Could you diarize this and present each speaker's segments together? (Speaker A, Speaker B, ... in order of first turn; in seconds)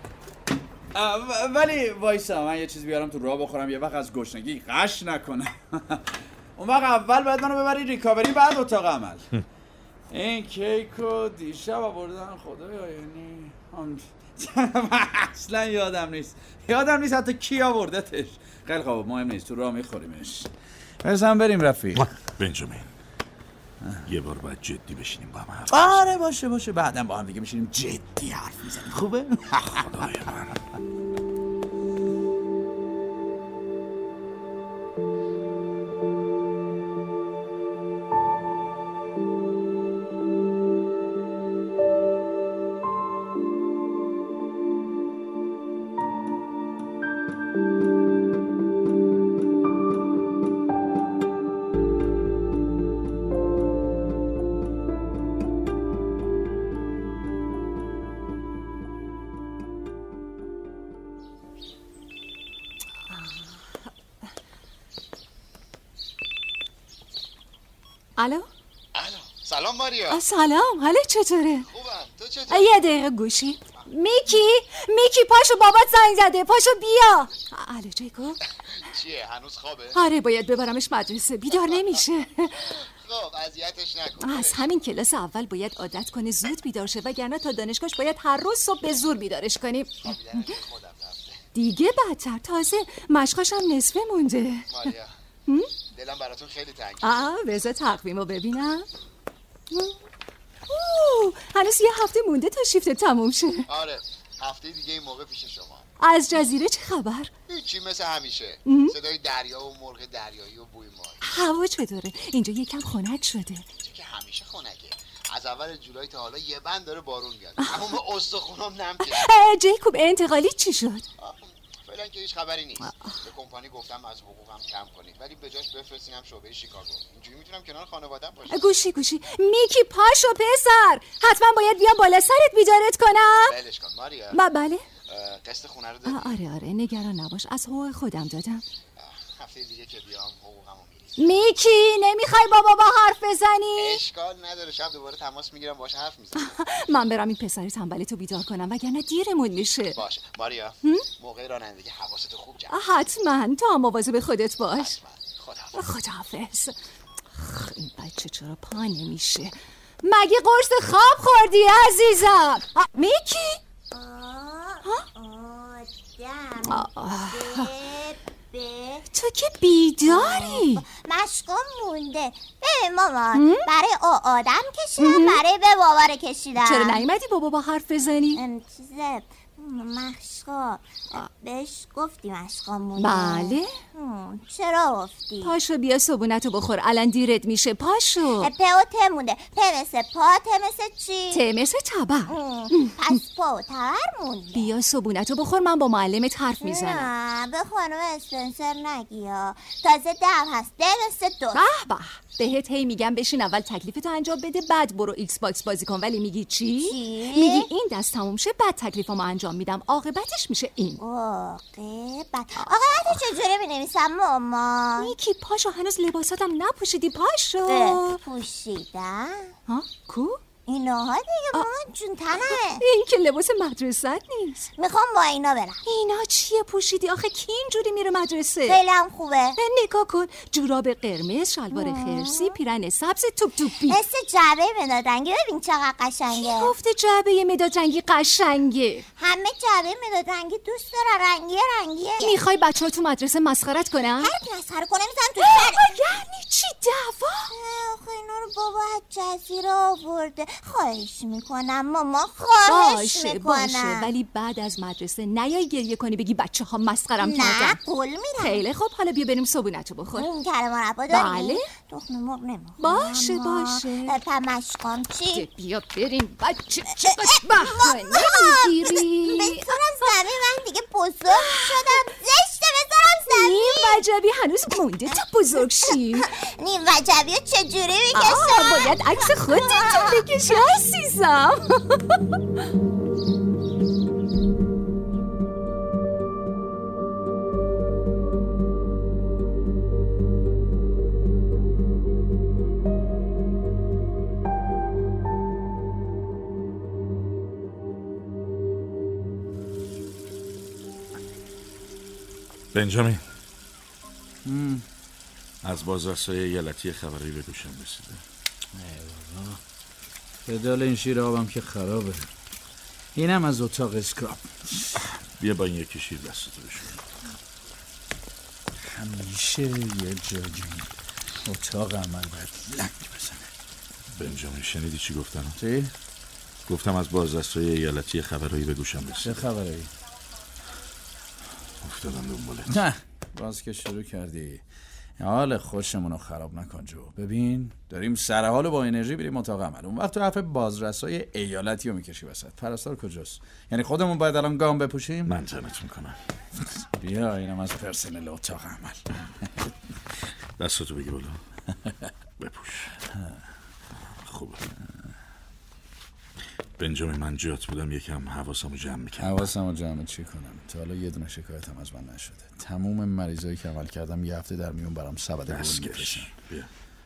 Speaker A: 0.9-9.3, 10.1-20.5, 21.0-22.1, 23.8-24.1, 25.7-30.0, 304.4-304.8, 308.7-309.6, 310.4-312.2, 313.1-315.1, 318.8-320.9, 321.4-323.5, 325.6-325.9, 329.2-329.9, 332.7-334.6, 335.2-345.4, 346.8-349.0, 359.2-366.3
Speaker B: 21.9-22.9, 24.0-26.0, 29.9-30.6, 302.7-303.2, 305.6-308.2, 315.4-317.0, 324.1-325.6, 326.7-329.5, 331.8-332.8, 345.2-346.2, 350.6-351.4, 352.4-353.0, 354.2-354.6, 356.8-359.5, 365.5-366.7
Speaker C: 63.1-63.5, 68.2-68.5, 70.1-71.7, 72.5-78.4, 79.9-82.8, 84.2-90.2, 91.5-94.7, 97.0-98.9, 99.7-100.0, 100.7-103.7, 106.0-107.3, 108.7-108.9, 111.2-113.6, 119.0-121.1, 122.8-123.1, 128.5-133.6, 134.3-134.8, 136.1-138.6, 141.2-144.0, 146.3-150.0, 152.7-154.9, 155.7-156.7, 157.3-163.6, 166.6-167.8, 169.1-170.8, 173.3-173.7, 175.0-175.4, 176.6-178.4, 183.0-183.8, 185.4-188.5, 191.3-192.9, 194.5-197.1, 201.5-211.0, 212.6-213.2, 215.0-218.2, 219.7-220.4, 222.5-224.7, 225.8-228.8, 229.6-234.0, 236.3-239.1, 242.2-244.3, 245.4-247.5, 252.7-257.8, 258.4-260.3, 261.1-261.7, 262.8-264.1, 265.3-270.2, 271.3-272.0, 273.3-276.3, 278.1-282.2
Speaker D: 68.9-70.2, 71.7-72.8, 78.8-80.0, 81.6-84.8, 90.0-91.4, 94.7-95.1, 95.9-97.3, 103.7-105.8, 107.5-111.2, 113.8-119.3, 121.2-128.8, 133.4-134.4, 135.1-136.4, 139.0-141.3, 143.8-146.5, 149.8-152.8, 154.7-155.8
Speaker E: 163.9-169.0, 170.0-177.0, 178.3-185.5, 188.4-191.4, 192.3-194.7, 196.6-201.6, 206.8-207.7, 211.0-215.1, 217.7-219.5, 220.7-222.8, 224.8-225.8, 228.7-229.6, 231.7-232.5, 233.8-236.7, 239.2-242.4, 244.2-245.9, 247.5-254.1, 257.2-258.6, 260.2-265.4, 267.0-274.0, 276.1-280.3